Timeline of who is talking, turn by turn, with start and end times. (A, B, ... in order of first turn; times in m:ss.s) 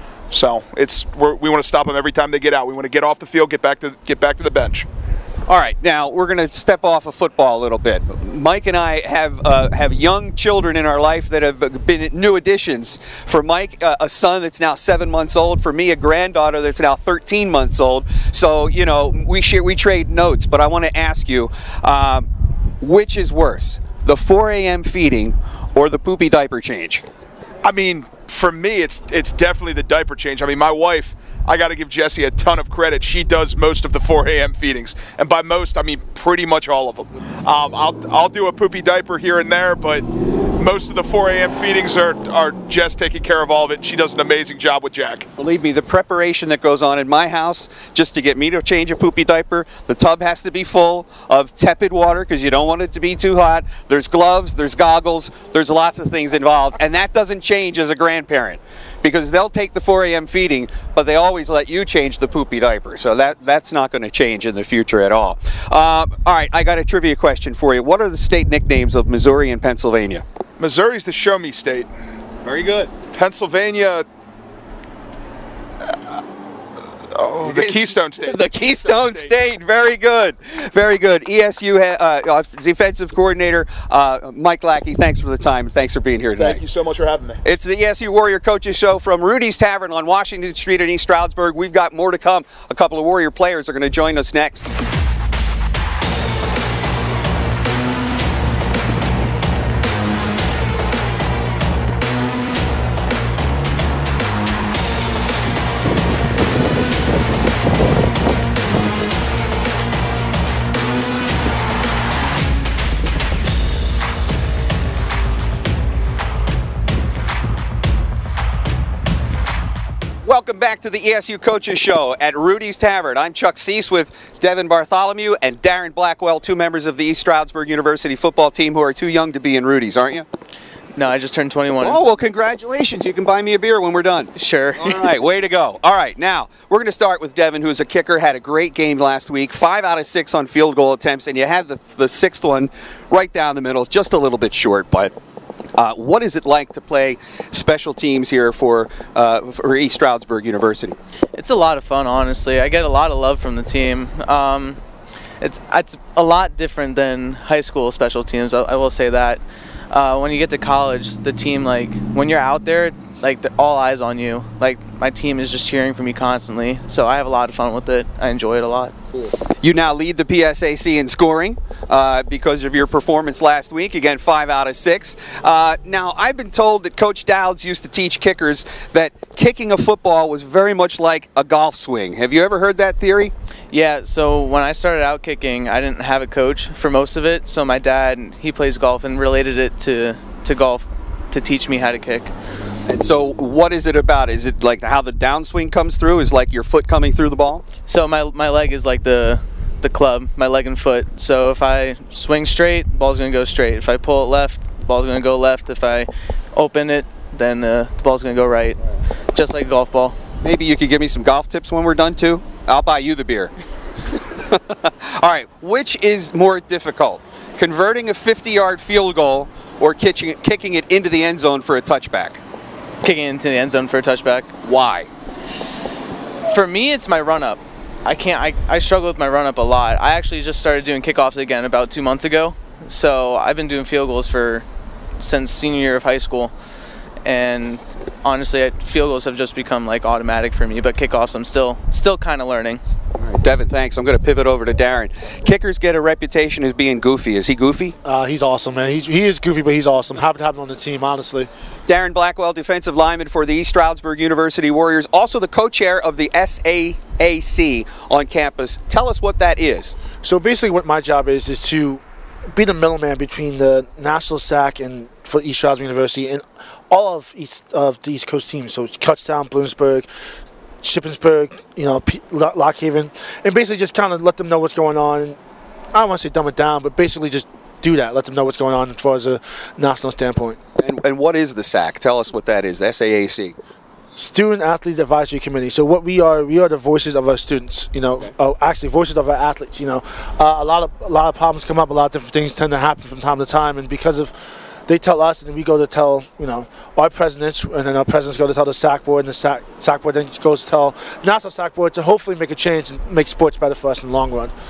0:00.3-0:04.8 A
0:05.5-0:22.3 B
0:22.8-0:27.0 B
0:27.6-0:40.0 A
0:40.6-0:45.3 A
0:45.4-1:10.2 B
1:10.6-1:11.9 A
1:12.4-1:12.9 B
1:13.0-1:14.0 A
1:17.1-1:19.4 A
1:17.4-1:26.6 B
1:26.4-1:27.4 A
1:27.4-1:34.7 B
2:00.2-2:10.3 B
2:10.9-2:12.1 C
2:11.8-2:25.2 B
2:14.4-2:15.1 C
2:25.8-2:31.0 B
2:31.3-2:34.8 C
2:35.4-2:48.9 C
2:49.6-3:03.3 B
3:03.7-3:12.3 C
3:12.8-3:17.6 B
3:17.9-3:28.8 C
3:29.3-3:30.2 C
3:30.4-3:33.5 B
3:34.1-3:42.4 B
3:43.0-3:44.5 C
3:44.6-3:45.1 B
3:46.5-3:54.7 C
3:55.2-3:56.5 C
3:57.2-4:02.8 C
4:03.2-4:07.9 B
4:08.0-4:11.5 D
4:11.9-4:19.9 B
4:20.2-4:22.0 D
4:22.5-4:30.1 D
4:30.8-4:35.4 D
4:35.9-4:40.6 D
4:40.8-4:43.6 B
4:44.2-4:54.3 D
4:54.9-5:04.5 D